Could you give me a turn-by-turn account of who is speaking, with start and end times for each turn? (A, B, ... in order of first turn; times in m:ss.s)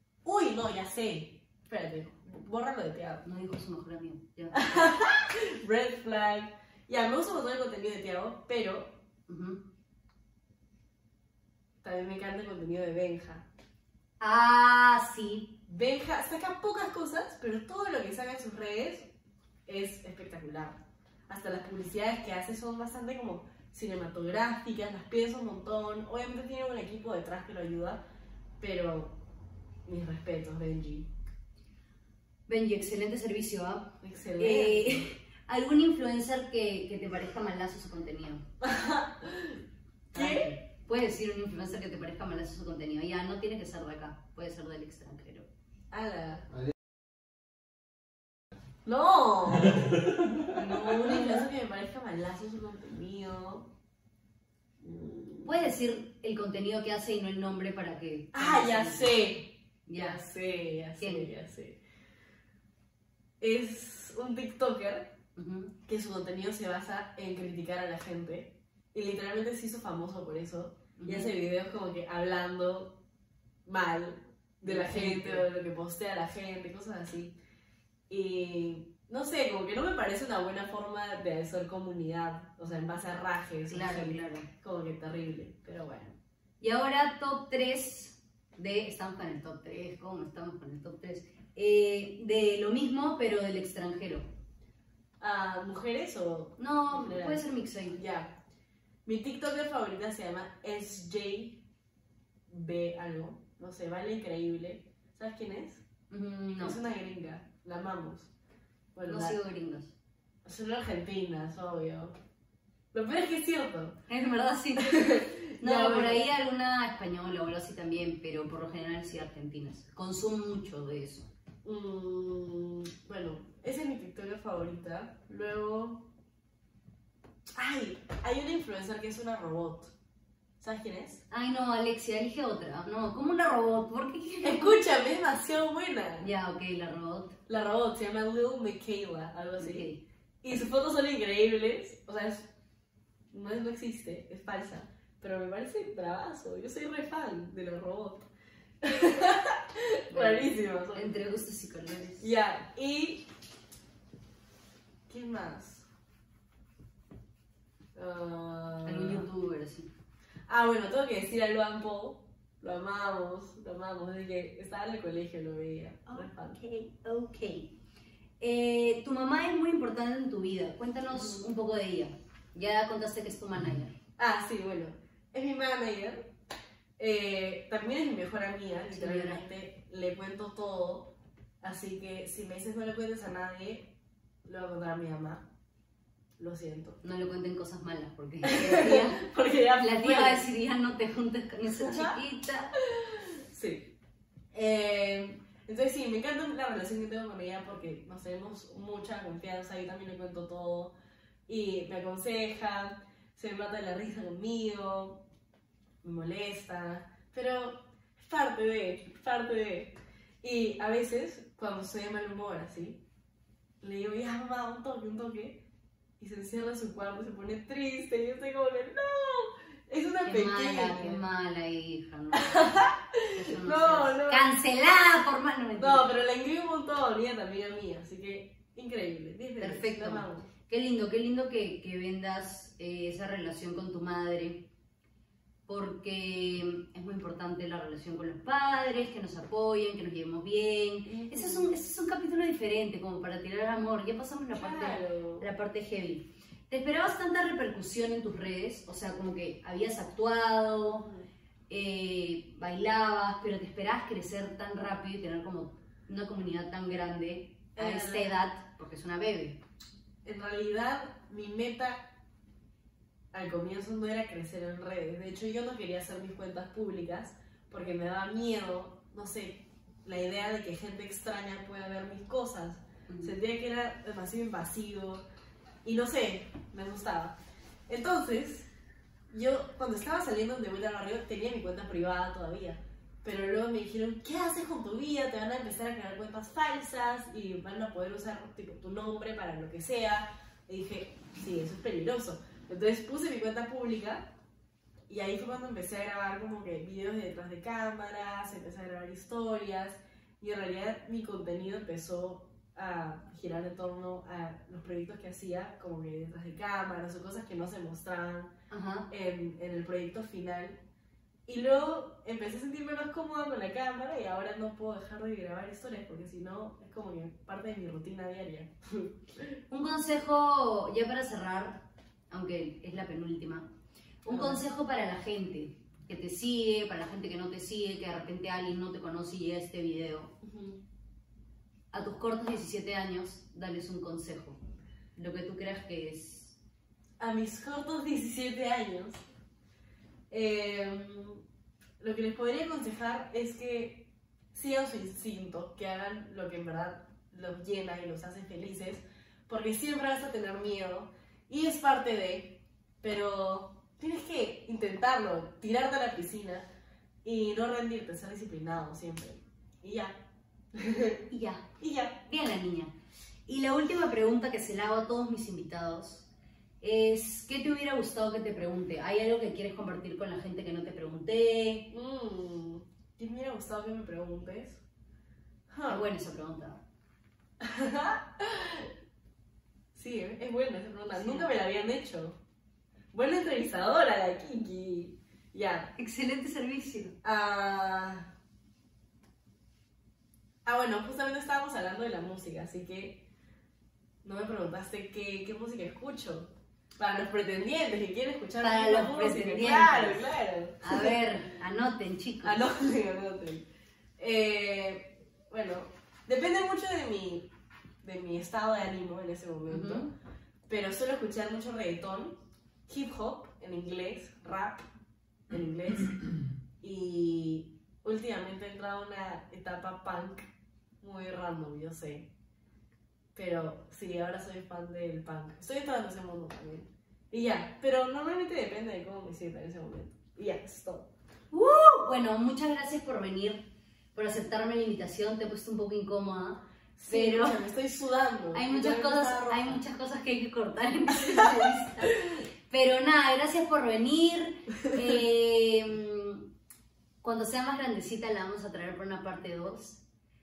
0:00.2-0:03.2 A
0:03.2-0:04.9 B
0:04.5-0:08.9 A
0:09.3-0:09.6 B
0:11.8-0:13.4 A
0:14.2-0:15.5 B
0:15.7-0:19.1 A
0:19.6-0:28.0 A
0:28.6-0:29.1 A
0:29.8-0:31.1 A
0:32.5-0:38.4 B
0:34.0-0:35.1 A
0:38.6-0:39.6 A
0:40.1-0:45.5 B
0:40.1-0:40.5 A
0:45.9-0:46.4 A
0:48.8-0:49.9 A
0:50.5-0:51.4 B
0:50.5-0:53.7 A
0:54.8-0:55.6 A
0:55.4-0:59.1 B
0:58.3-1:01.8 A
0:59.9-1:00.2 B
1:01.0-1:01.3 B
1:03.4-1:05.1 A
1:05.4-1:05.7 B
1:05.9-1:12.9 A
1:11.0-1:11.3 B
1:13.6-1:17.3 A
1:14.6-1:15.4 B
1:18.1-1:26.2 A
1:23.7-1:24.4 B
1:26.6-1:34.2 B
1:35.2-1:38.3 A
1:36.6-1:38.0 B
1:39.0-1:41.6 A
1:42.5-1:45.8 A
1:46.1-1:46.8 B
1:46.6-1:48.3 A
1:48.9-1:49.4 A
1:49.0-1:49.9 B
1:50.4-1:52.1 A
1:52.9-1:54.0 A
1:54.1-1:55.0 B
1:54.8-1:56.2 A
1:55.6-2:01.2 B
2:01.6-2:06.0 A
2:07.6-2:09.9 A
2:10.6-2:11.2 A
2:11.3-2:14.8 B
2:14.4-2:16.3 A
2:16.2-2:17.3 B
2:17.5-2:19.9 A
2:19.6-2:20.0 B
2:20.4-2:22.5 A
2:23.3-2:28.2 A
2:28.8-2:31.1 A
2:30.1-2:32.3 B
2:32.2-2:33.2 A
2:35.1-2:35.8 A
2:37.9-2:39.2 A
2:38.8-2:39.9 B
2:40.5-2:46.6 A
2:46.1-2:47.7 B
2:48.4-2:53.9 B
2:51.1-2:51.5 A
2:54.2-2:56.2 A
2:57.0-3:03.9 A
2:58.9-2:59.4 B
3:04.4-3:05.4 A
3:06.4-3:07.0 A
3:07.0-3:09.2 B
3:08.4-3:10.4 A
3:09.8-3:12.7 B
3:11.7-3:12.2 A
3:12.9-3:13.8 A
3:14.5-3:20.9 A
3:21.5-3:25.2 A
3:26.0-3:33.0 A
3:33.8-3:35.6 A
3:36.2-3:41.2 A
3:40.2-3:42.8 B
3:42.3-3:44.5 A
3:43.3-3:46.0 B
3:45.8-3:50.5 A
3:49.6-3:54.7 B
3:55.7-4:11.0 B
4:01.0-4:01.7 A
4:04.5-4:05.5 A
4:11.7-4:19.6 B
4:17.8-4:18.4 A
4:20.2-4:22.1 A
4:23.3-4:35.2 A
4:33.1-4:33.4 B
4:35.8-4:37.4 A
4:37.9-4:38.7 A
4:39.3-4:54.3 A
4:55.1-5:08.5 A
5:08.7-5:09.1 B
5:09.1-5:10.8 A
5:11.5-5:19.6 A
5:19.7-5:23.7 B
5:24.2-5:30.3 B
5:24.3-5:24.6 A
5:30.4-5:30.8 A
5:31.9-5:34.6 B
5:35.2-5:36.6 B
5:37.2-5:39.2 A
5:40.3-5:41.4 A
5:42.0-5:56.7 A
5:57.2-6:00.2 A
6:00.7-6:01.2 A
6:01.3-6:01.6 B
6:01.8-6:02.2 A
6:02.2-6:02.9 B
6:03.5-6:06.2 B
6:06.8-6:11.8 B
6:11.9-6:14.8 A
6:15.7-6:16.0 A
6:15.9-6:16.8 B
6:17.6-6:18.9 A
6:19.9-6:22.4 A
6:21.1-6:21.5 B
6:23.1-6:25.9 A
6:26.0-6:27.1 B
6:27.2-6:28.3 A
6:30.6-6:33.2 A
6:34.2-6:41.2 A
6:38.6-6:40.2 B
6:40.8-6:42.6 B
6:42.4-6:43.6 A
6:44.2-6:47.5 A
6:48.0-6:50.1 A
6:49.7-6:50.1 B
6:50.7-6:52.4 A
6:52.9-6:54.8 A
6:55.5-6:56.3 A
6:56.8-7:00.5 A
7:01.0-7:02.3 A
7:03.3-7:11.1 A
7:11.5-7:17.6 B
7:17.0-7:19.8 A
7:18.5-7:26.5 B
7:21.3-7:21.6 A
7:27.2-7:30.0 B